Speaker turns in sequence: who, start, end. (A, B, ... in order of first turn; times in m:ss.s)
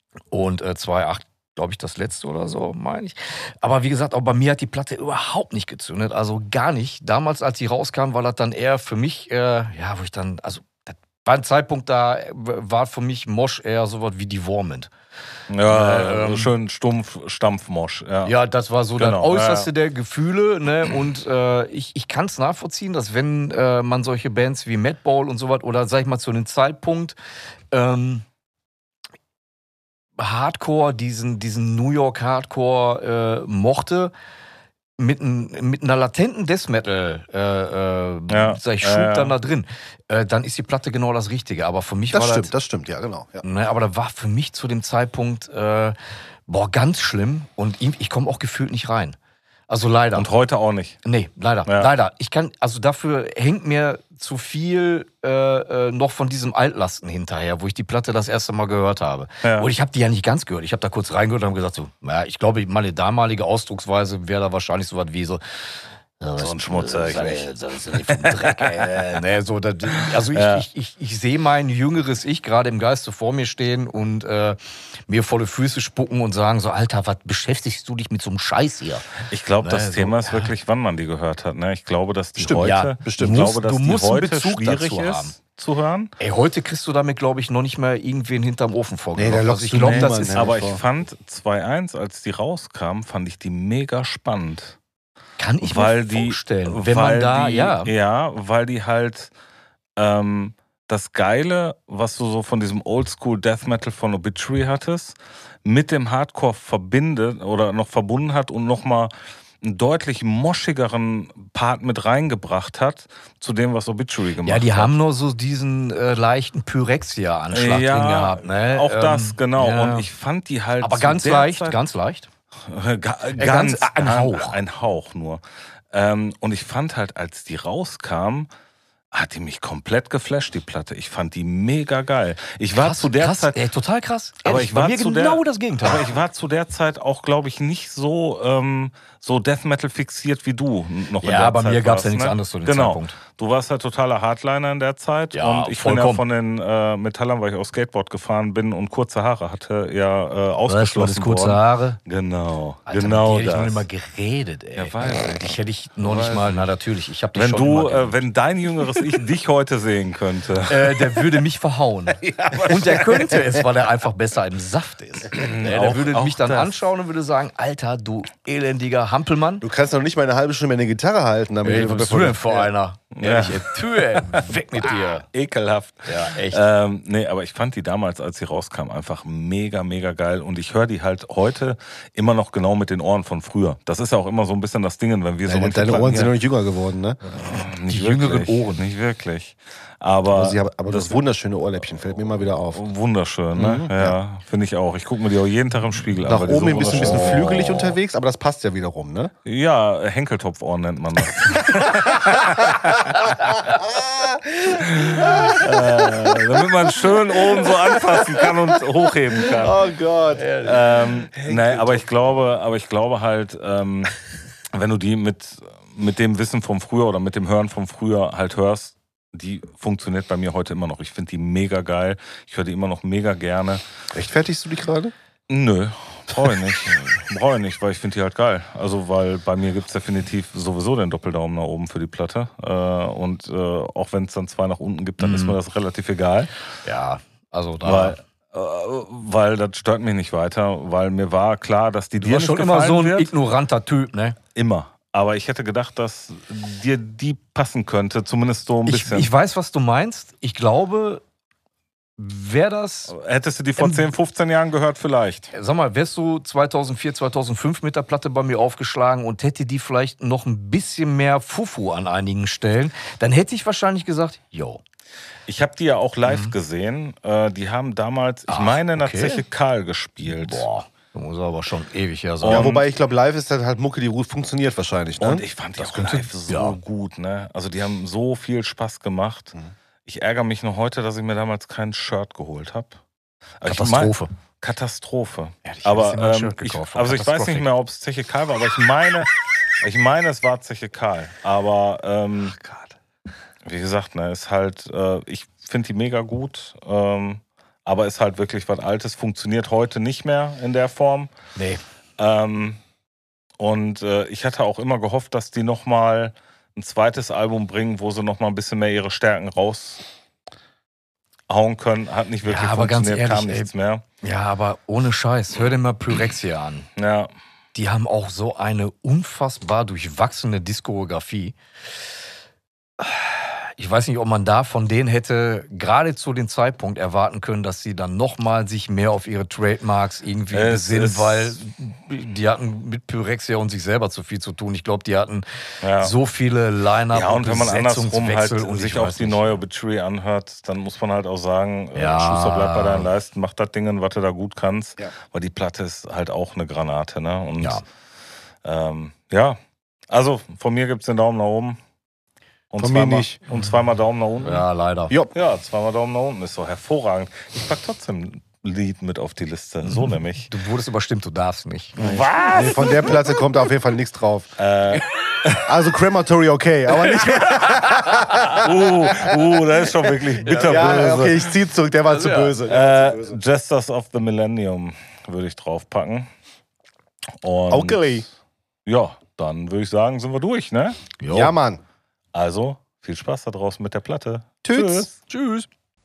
0:00.3-0:14.9 A
0:15.5-0:18.3 B
0:15.6-0:16.6 A
0:18.2-0:27.2 A
0:19.0-0:19.7 B
0:27.7-0:28.2 A
0:30.2-0:34.1 A
0:35.0-0:42.5 A
0:38.3-0:39.4 B
0:42.1-0:43.4 C
0:43.4-0:46.0 A
0:46.5-0:49.2 A
0:49.7-0:50.3 A
0:50.2-0:51.0 B
0:51.0-1:05.4 A
0:59.4-0:59.7 B
1:06.2-1:20.5 A
1:06.4-1:09.2 B
1:10.2-1:10.7 B
1:19.3-1:26.1 B
1:22.4-1:23.5 C
1:22.6-1:25.4 A
1:26.2-1:30.6 A
1:29.2-1:30.8 C
1:29.8-1:34.8 B
1:35.4-1:37.9 A
1:35.6-1:39.3 B
1:40.0-1:55.0 B
1:54.4-2:00.1 A
1:57.5-2:01.8 B
2:00.8-2:02.3 A
2:02.7-2:08.5 B
2:03.4-2:04.6 A
2:09.1-2:13.6 B
2:12.8-2:16.2 A
2:14.4-2:33.9 B
2:21.2-2:23.2 A
2:25.3-2:26.2 A
2:30.7-2:32.0 A
2:32.9-2:38.2 A
2:34.8-2:36.7 B
2:37.3-2:41.4 B
2:40.7-2:49.7 A
2:42.4-2:43.1 B
2:45.3-2:46.8 B
2:49.6-2:52.7 C
2:51.6-2:55.3 A
2:53.2-3:06.4 B
2:56.1-2:56.7 A
3:05.5-3:07.2 C
3:07.4-3:11.2 B
3:07.5-3:08.9 A
3:10.3-3:12.8 C
3:11.8-3:17.9 B
3:13.6-3:14.2 C
3:16.3-3:19.3 C
3:16.9-3:17.6 A
3:19.5-3:23.5 B
3:23.9-3:24.3 C
3:24.8-3:29.8 B
3:25.1-3:26.4 C
3:29.4-3:32.2 C
3:30.4-3:30.9 A
3:30.6-3:34.2 B
3:34.7-3:43.8 B
3:44.1-3:45.1 C
3:45.5-3:56.5 B
3:55.2-3:55.6 A
3:56.8-3:58.2 A
3:57.8-4:03.3 B
4:02.2-4:04.4 A
4:04.6-4:09.3 B
4:08.8-4:11.2 A
4:12.2-4:13.1 A
4:13.1-4:15.5 B
4:13.8-4:14.1 A
4:15.5-4:24.8 A
4:25.5-4:30.7 B
4:26.2-4:26.6 A
4:28.5-4:29.4 A
4:30.2-4:32.7 A
4:32.4-4:32.9 B
4:32.5-4:35.5 C
4:35.2-4:39.6 B
4:35.8-4:36.8 A
4:40.1-4:43.0 B
4:43.6-4:52.6 B
4:43.6-4:44.3 A
4:45.6-4:47.7 A
4:52.6-4:52.9 A
4:53.6-5:01.3 B
5:01.6-5:01.8 A
5:02.2-5:02.8 B
5:03.6-5:10.0 B
5:11.5-5:14.0 B
5:12.4-5:16.9 A
5:17.0-5:17.3 B
5:17.7-5:21.6 A
5:23.0-5:39.6 A
5:30.5-5:31.6 B
5:35.8-5:36.1 B
5:37.1-5:47.8 B
5:41.9-5:43.1 A
5:48.6-5:49.6 B
5:50.1-5:51.8 B
5:52.7-5:54.6 B
5:52.8-5:53.4 C
5:54.4-5:55.1 A
5:55.3-6:00.5 B
5:59.8-6:02.2 A
6:02.0-6:03.3 B
6:02.0-6:04.5 C
6:04.6-6:05.7 B
6:05.6-6:09.1 C
6:08.5-6:11.5 B
6:10.4-6:11.3 A
6:10.5-6:13.4 C
6:12.1-6:12.6 A
6:12.6-6:16.3 B
6:17.4-6:18.3 B
6:17.7-6:18.2 C
6:18.9-6:21.0 B
6:21.2-6:21.5 A
6:21.3-6:21.8 C
6:22.3-6:25.1 B
6:24.6-6:25.1 C
6:25.3-6:25.7 A